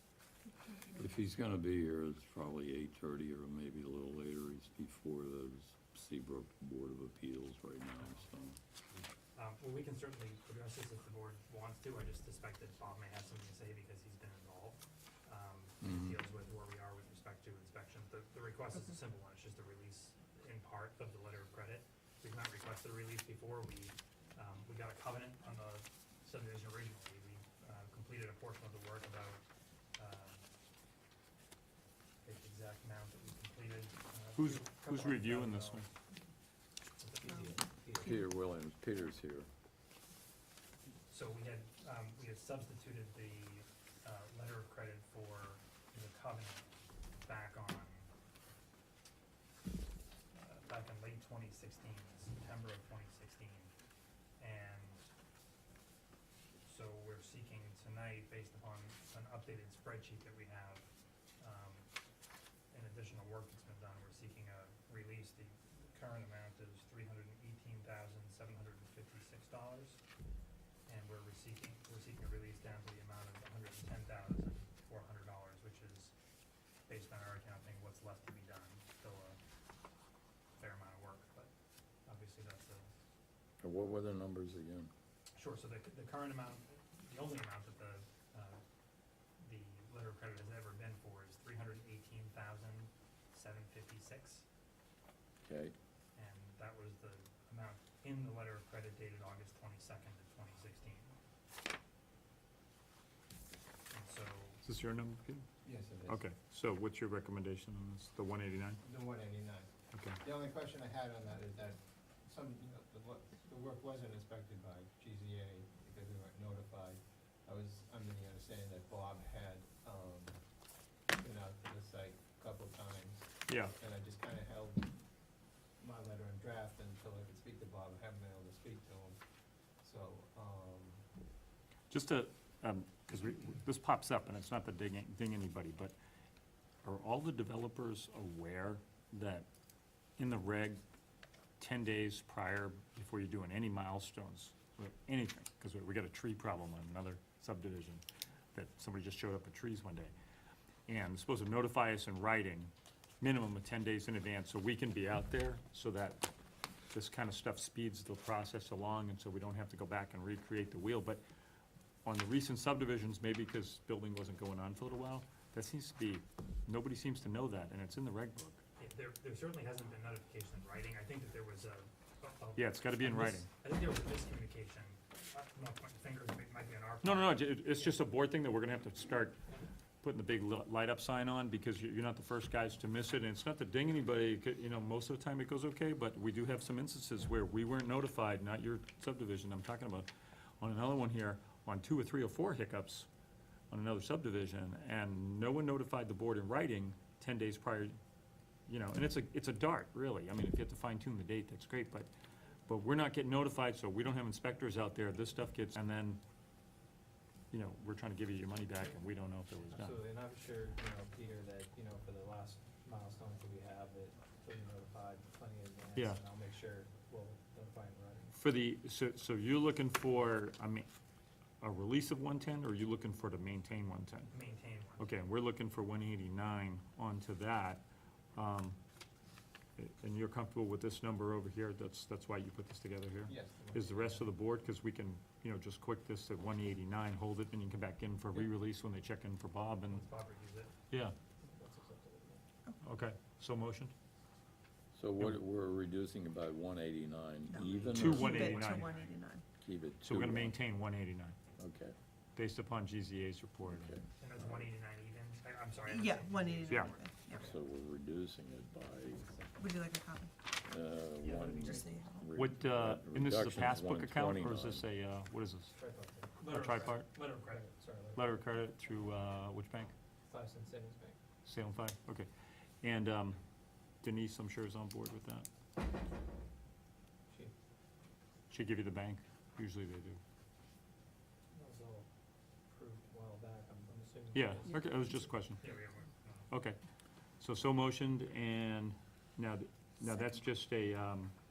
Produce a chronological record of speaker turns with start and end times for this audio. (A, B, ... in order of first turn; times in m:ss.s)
0:00.9-0:08.6 A
0:08.0-0:08.2 B
0:09.3-0:29.4 B
0:15.8-0:16.2 A
0:30.0-0:30.4 B
0:32.2-0:35.9 B
0:34.4-0:35.9 C
0:37.0-0:37.4 B
0:37.1-0:38.1 D
0:38.0-0:39.5 A
0:41.1-0:48.1 B
0:50.3-0:53.7 B
0:54.4-0:55.0 B
0:56.6-1:01.9 B
1:02.7-1:10.0 B
1:10.8-1:16.1 B
1:16.9-1:19.4 B
1:20.6-1:21.5 B
1:22.0-1:22.9 B
1:23.6-1:24.9 A
1:25.3-1:28.6 B
1:29.4-1:34.4 B
1:35.4-1:35.7 A
1:36.1-1:41.2 B
1:43.9-1:44.6 B
1:44.6-1:45.5 C
1:45.6-1:46.2 D
1:46.0-1:48.8 C
1:48.8-2:00.4 D
1:49.9-1:50.2 C
2:01.2-2:04.9 D
2:03.5-2:03.7 C
2:05.8-2:09.2 D
2:09.8-2:11.0 D
2:11.9-2:15.9 C
2:16.8-2:19.5 C
2:20.2-2:20.8 C
2:21.6-2:28.0 C
2:28.5-2:30.1 C
2:30.9-2:36.2 C
2:36.9-2:41.2 C
2:42.0-2:48.6 C
2:48.8-2:58.0 B
2:52.6-2:53.5 C
2:57.0-2:59.4 C
3:00.0-3:10.1 C
3:10.6-3:13.1 C
3:13.7-3:18.0 C
3:18.7-3:22.1 C
3:22.7-3:26.2 C
3:27.5-3:30.0 C
3:29.7-3:38.4 D
3:35.9-3:36.2 C
3:38.3-3:40.9 C
3:41.6-3:44.3 C
3:44.3-3:45.1 B
3:45.0-3:47.8 C
3:48.3-3:48.8 C
3:49.8-4:00.0 C
3:53.2-3:54.4 D
3:59.8-4:00.7 B
4:00.9-4:01.2 C
4:01.4-4:02.4 D
4:02.8-4:03.9 C
4:04.9-4:08.8 A
4:07.5-4:09.4 E
4:07.9-4:09.1 C
4:09.6-4:10.6 A
4:10.0-4:11.4 C
4:11.6-4:11.9 A
4:12.4-4:13.9 C
4:13.6-4:14.7 A
4:14.2-4:17.1 B
4:15.9-4:17.5 E
4:16.7-4:16.9 C
4:17.3-4:17.5 D
4:17.4-4:19.3 A
4:19.1-4:19.7 D
4:19.5-4:20.3 E
4:20.6-4:24.9 A
4:21.2-4:25.8 C
4:21.5-4:22.3 E
4:25.7-4:28.6 D
4:26.4-4:27.6 B
4:26.4-4:27.2 C
4:28.1-4:29.9 C
4:30.2-4:31.2 D
4:31.4-4:32.3 C
4:32.8-4:33.4 C
4:34.0-4:35.5 C
4:38.5-4:40.2 C
4:41.5-4:42.1 D
4:42.7-4:44.8 D
4:44.3-4:45.6 C
4:45.6-4:46.5 B
4:46.5-4:46.8 C
4:47.4-4:51.3 C